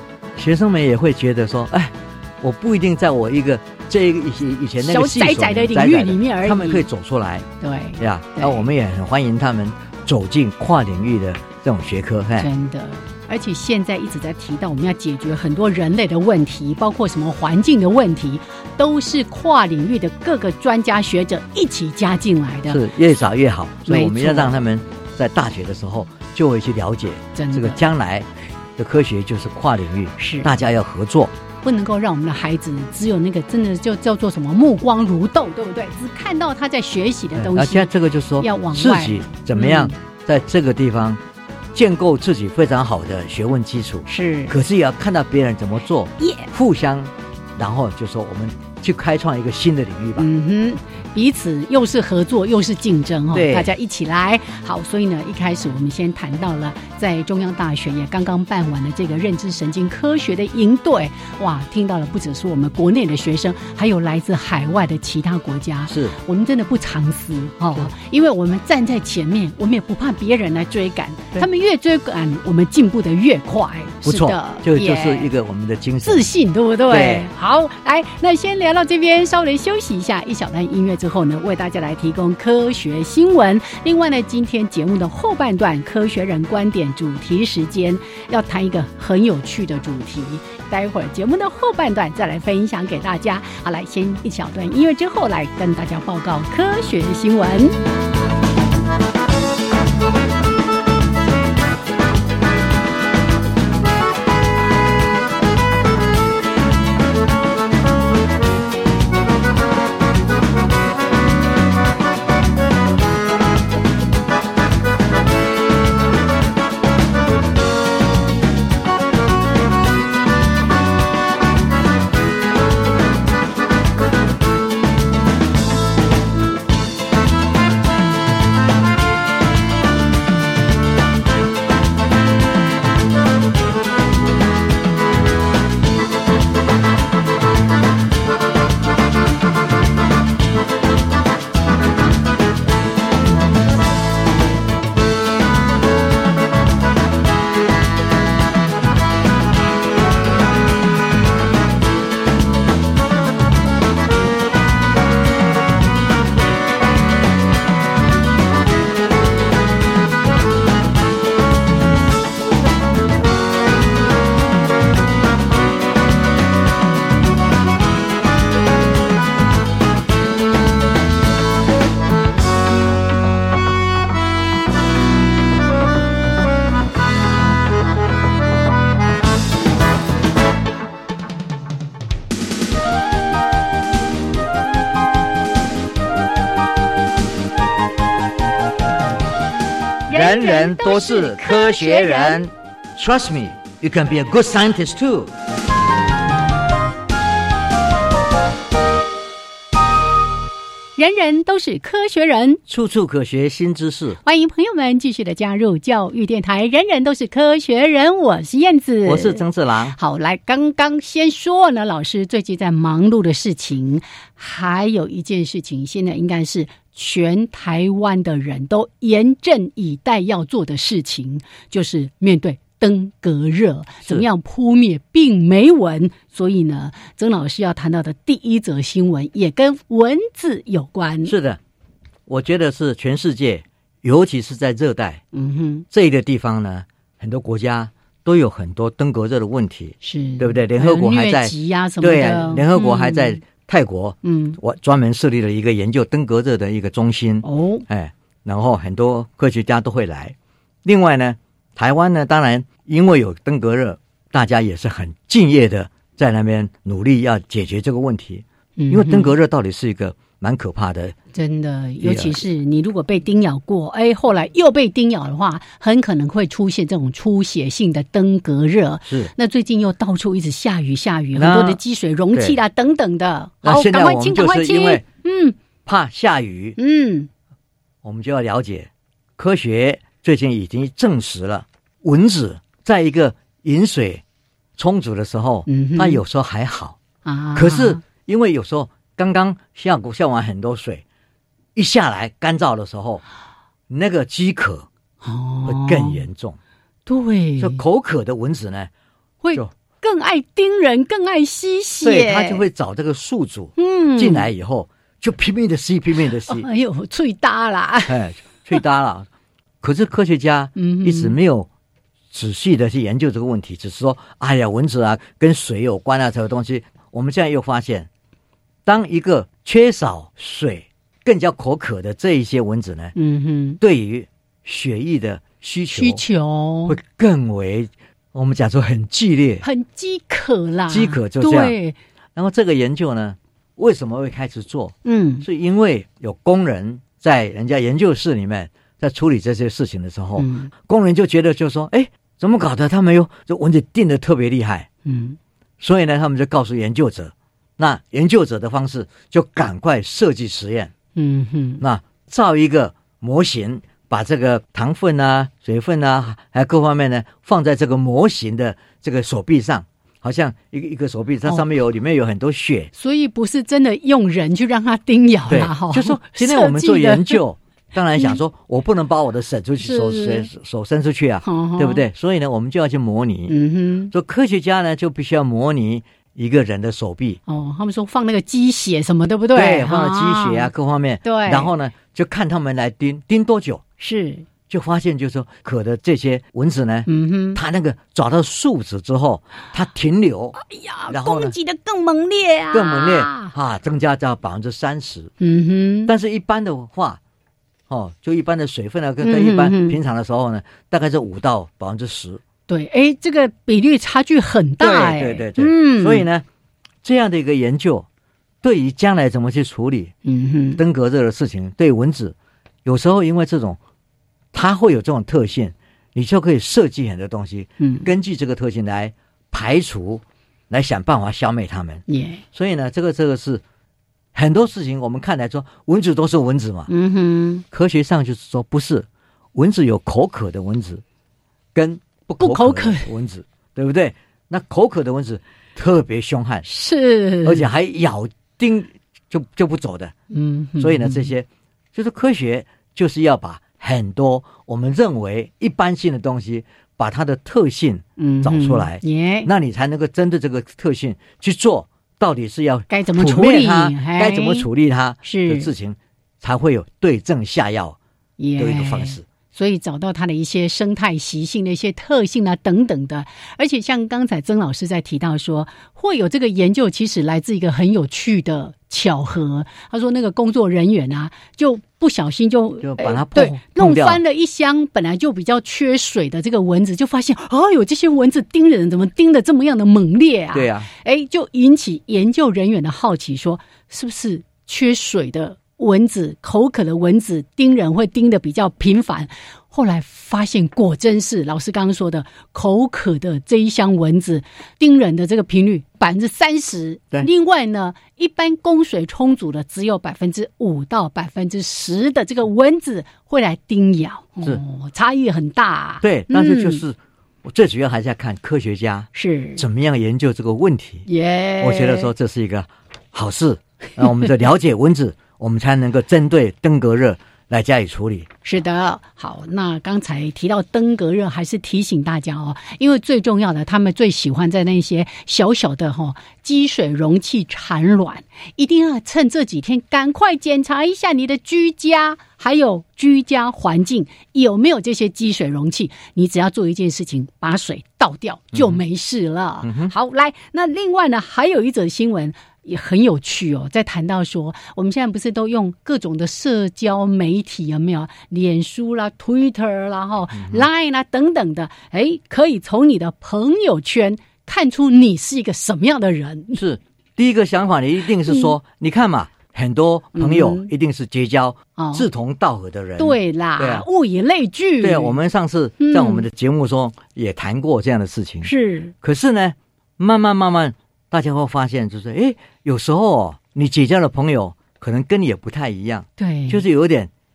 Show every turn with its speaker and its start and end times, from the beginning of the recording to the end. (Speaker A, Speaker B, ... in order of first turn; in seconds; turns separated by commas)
Speaker A: 0.3-7.5, Speaker B: 4.8-6.8, Speaker B: 7.6-8.7, Speaker A: 8.0-12.5, Speaker B: 12.4-22.8, Speaker A: 22.7-31.3, Speaker B: 23.9-24.6, Speaker B: 27.3-27.8, Speaker B: 30.2-30.5, Speaker B: 31.6-40.0, Speaker A: 37.3-41.2, Speaker A: 41.7-50.3, Speaker B: 44.1-44.5, Speaker B: 46.2-46.5, Speaker B: 50.2-75.3, Speaker A: 53.3-53.7, Speaker A: 65.9-66.1, Speaker A: 74.0-76.3, Speaker B: 76.0-97.8, Speaker A: 76.9-77.3, Speaker B: 190.1-192.4, Speaker A: 190.1-195.3, Speaker B: 201.0-202.6, Speaker A: 202.7-204.2, Speaker B: 204.2-209.4, Speaker A: 209.1-210.0, Speaker B: 209.9-231.3, Speaker A: 231.2-231.6, Speaker A: 232.3-235.2, Speaker B: 235.3-235.8, Speaker A: 235.9-261.1, Speaker B: 240.0-243.4, Speaker B: 244.2-244.6, Speaker B: 247.4-247.8, Speaker B: 258.8-259.3, Speaker B: 261.3-275.6, Speaker A: 262.0-262.4, Speaker A: 269.1-269.3, Speaker A: 271.3-271.8, Speaker A: 273.6-275.0, Speaker A: 275.8-276.8, Speaker B: 276.8-277.3, Speaker A: 278.0-284.2, Speaker A: 284.8-287.0, Speaker B: 285.7-286.2, Speaker B: 287.2-288.0, Speaker A: 287.5-291.0, Speaker A: 291.7-293.2, Speaker A: 293.9-294.9, Speaker B: 295.2-296.2, Speaker A: 295.6-296.6, Speaker B: 297.1-297.8, Speaker A: 297.6-298.9, Speaker B: 299.4-302.6, Speaker A: 302.0-306.7, Speaker B: 303.8-304.5, Speaker B: 306.4-308.2, Speaker A: 308.1-309.3, Speaker A: 309.8-311.7, Speaker B: 310.8-311.4, Speaker A: 312.3-318.1, Speaker A: 318.9-323.1, Speaker B: 323.1-323.8, Speaker A: 323.8-326.2, Speaker B: 325.9-327.0, Speaker A: 326.9-329.6, Speaker B: 329.6-332.0, Speaker A: 330.9-331.8, Speaker A: 332.3-344.9, Speaker B: 335.0-335.4, Speaker B: 340.4-340.7, Speaker B: 345.0-345.4, Speaker A: 345.8-350.9, Speaker B: 351.1-351.8, Speaker A: 351.8-362.9, Speaker B: 362.9-367.4, Speaker A: 365.5-373.5, Speaker B: 369.8-370.5, Speaker B: 371.4-372.0, Speaker B: 373.5-374.1, Speaker A: 374.1-377.4, Speaker B: 377.5-380.7, Speaker A: 379.5-383.8, Speaker B: 381.2-381.7, Speaker B: 384.0-384.4, Speaker A: 384.7-390.6, Speaker B: 387.1-387.6, Speaker B: 390.6-393.5, Speaker A: 391.1-391.6, Speaker A: 392.7-395.3, Speaker B: 395.4-396.1, Speaker A: 396.1-397.2, Speaker A: 397.9-402.4, Speaker B: 399.2-400.0, Speaker B: 402.7-406.2, Speaker A: 404.8-406.4, Speaker A: 407.0-408.1, Speaker A: 408.6-410.1, Speaker B: 410.2-410.8, Speaker A: 410.8-413.8, Speaker A: 414.5-423.6, Speaker B: 417.8-418.1, Speaker B: 422.1-422.4, Speaker A: 424.3-426.9, Speaker B: 426.9-427.6, Speaker A: 427.7-431.0, Speaker A: 431.7-436.6, Speaker B: 432.4-433.1, Speaker B: 436.6-437.7, Speaker A: 437.4-440.1, Speaker B: 440.3-441.3, Speaker A: 440.8-458.0, Speaker B: 448.2-449.5, Speaker B: 452.9-454.7, Speaker B: 455.2-455.7, Speaker B: 458.4-506.8, Speaker A: 458.6-459.2, Speaker A: 472.8-474.2, Speaker A: 480.5-480.9, Speaker A: 506.0-511.1, Speaker B: 509.1-509.6, Speaker B: 511.1-512.1, Speaker A: 511.6-518.3, Speaker B: 518.4-556.6, Speaker A: 538.5-538.8, Speaker A: 539.6-539.9, Speaker A: 550.4-550.7, Speaker A: 556.5-563.9, Speaker B: 560.1-560.7, Speaker B: 561.8-562.1, Speaker B: 563.0-565.2, Speaker A: 564.8-577.1, Speaker B: 565.8-566.3, Speaker B: 568.4-568.9, Speaker B: 576.2-576.6